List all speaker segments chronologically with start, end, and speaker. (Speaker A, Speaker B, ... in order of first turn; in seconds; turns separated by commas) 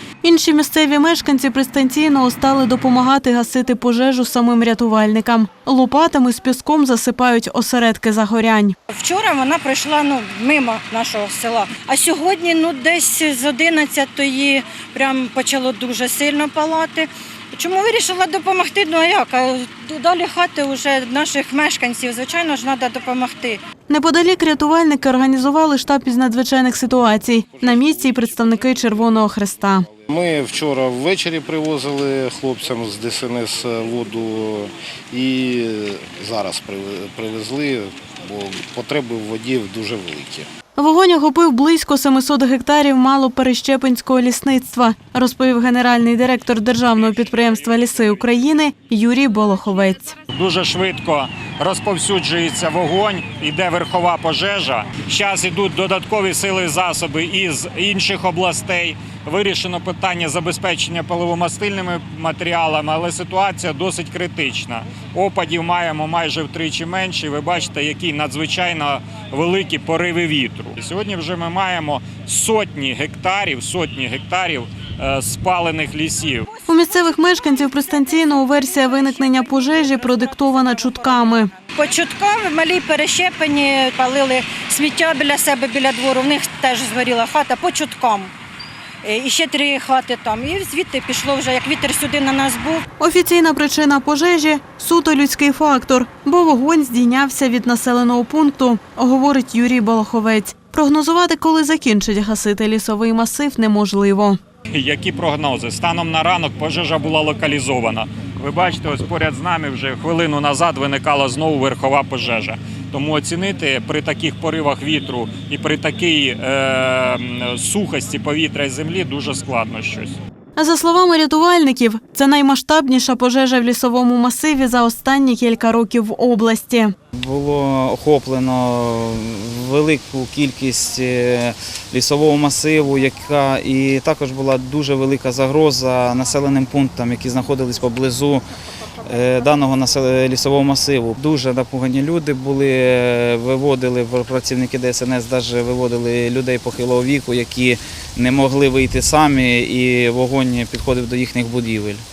Speaker A: 0.2-8.8, Speaker B: 8.9-23.6, Speaker A: 23.9-29.8, Speaker C: 27.4-40.5, Speaker A: 40.8-50.1, Speaker D: 46.9-48.4, Speaker D: 50.3-76.5, Speaker B: 76.5-88.3, Speaker A: 76.7-81.5, Speaker B: 89.0-92.8, Speaker A: 93.0-104.4, Speaker D: 104.7-120.2, Speaker A: 120.5-126.9, Speaker E: 127.1-138.4, Speaker E: 139.0-152.0